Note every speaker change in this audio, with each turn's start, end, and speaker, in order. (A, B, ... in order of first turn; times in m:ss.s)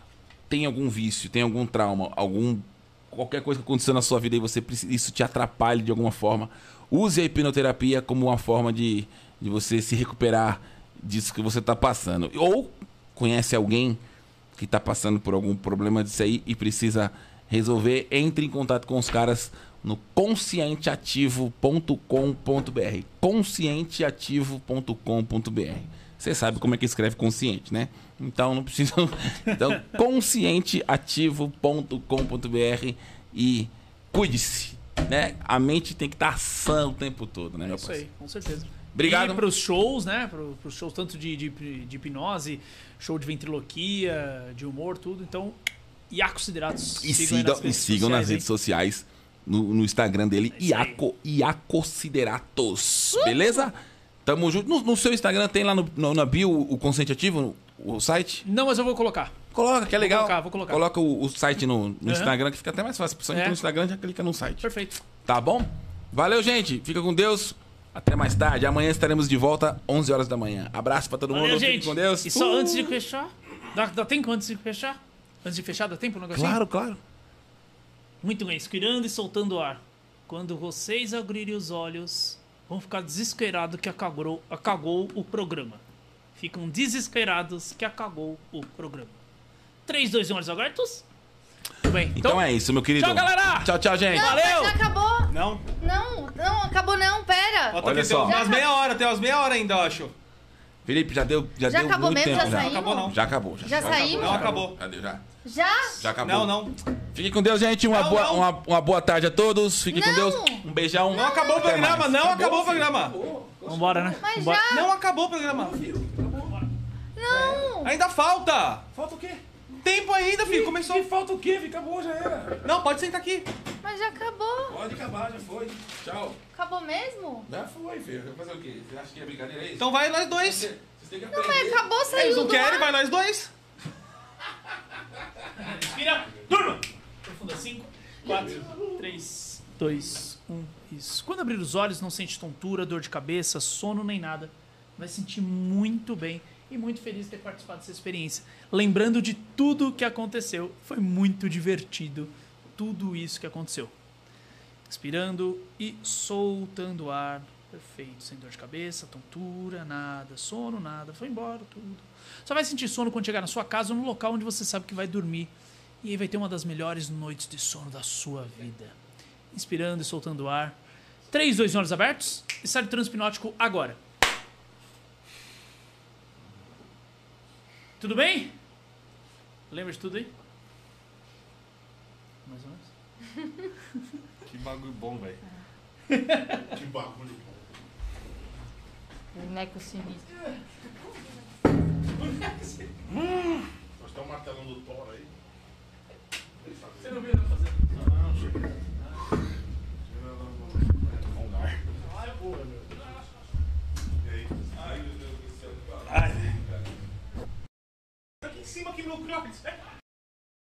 0:00.5-0:14.0 A
0:14.5-0:38.0 A
0:37.6-0:45.6 B
0:38.9-0:39.4 A
0:46.1-0:48.5 B
0:47.0-0:58.4 A
0:50.5-0:51.0 B
0:53.1-0:53.7 B
0:58.4-0:59.3 B
0:59.5-1:04.7 A
1:00.0-1:00.8 B
1:02.0-1:02.3 B
1:03.3-1:03.6 B
1:04.6-1:05.0 B
1:05.2-1:13.0 A
1:11.3-1:16.6 B
1:16.3-1:17.0 A
1:18.2-1:25.8 B
1:26.4-1:29.2 B
1:29.8-1:31.0 B
1:31.8-1:34.8 B
1:32.1-1:34.5 A
1:34.1-1:38.7 C
1:35.3-1:35.6 D
1:37.7-1:40.1 D
1:37.8-1:38.4 A
1:40.8-1:45.2 A
1:41.7-1:44.5 C
1:42.3-1:43.2 D
1:43.7-1:44.8 D
1:45.4-1:46.0 C
1:46.0-1:54.5 A
1:46.2-1:46.7 D
1:47.9-1:48.5 D
1:49.9-1:51.8 C
1:51.1-1:53.1 D
1:53.7-1:54.7 B
1:54.2-1:54.9 C
1:54.7-1:55.8 D
1:55.5-1:56.6 A
1:57.2-1:57.9 C
1:57.2-1:57.7 A
1:57.8-1:58.9 D
1:58.9-1:59.4 A
1:59.8-2:01.0 D
2:00.4-2:02.6 A
2:02.6-2:03.5 D
2:03.8-2:04.8 C
2:04.7-2:06.4 A
2:06.5-2:07.5 C
2:07.5-2:11.8 A
2:09.8-2:10.7 D
2:11.3-2:12.9 C
2:12.1-2:13.5 D
2:15.6-2:33.9 B
2:18.2-2:19.0 A
2:34.9-2:48.9 B
2:49.5-2:50.8 B
2:51.3-2:54.0 B
2:58.0-2:58.5 B
2:59.7-3:00.3 B
3:02.4-3:02.9 B
3:04.4-3:05.4 D
3:06.1-3:06.6 B
3:06.7-3:07.6 E
3:09.3-3:10.2 C
3:12.2-3:12.9 B
3:14.0-3:15.3 E
3:16.7-3:17.1 E
3:17.0-3:18.0 B
3:20.0-3:21.2 E
3:21.3-3:21.8 D
3:22.9-3:23.2 B
3:24.2-3:24.5 E
3:24.7-3:26.9 A
3:26.1-3:26.5 D
3:28.4-3:29.7 D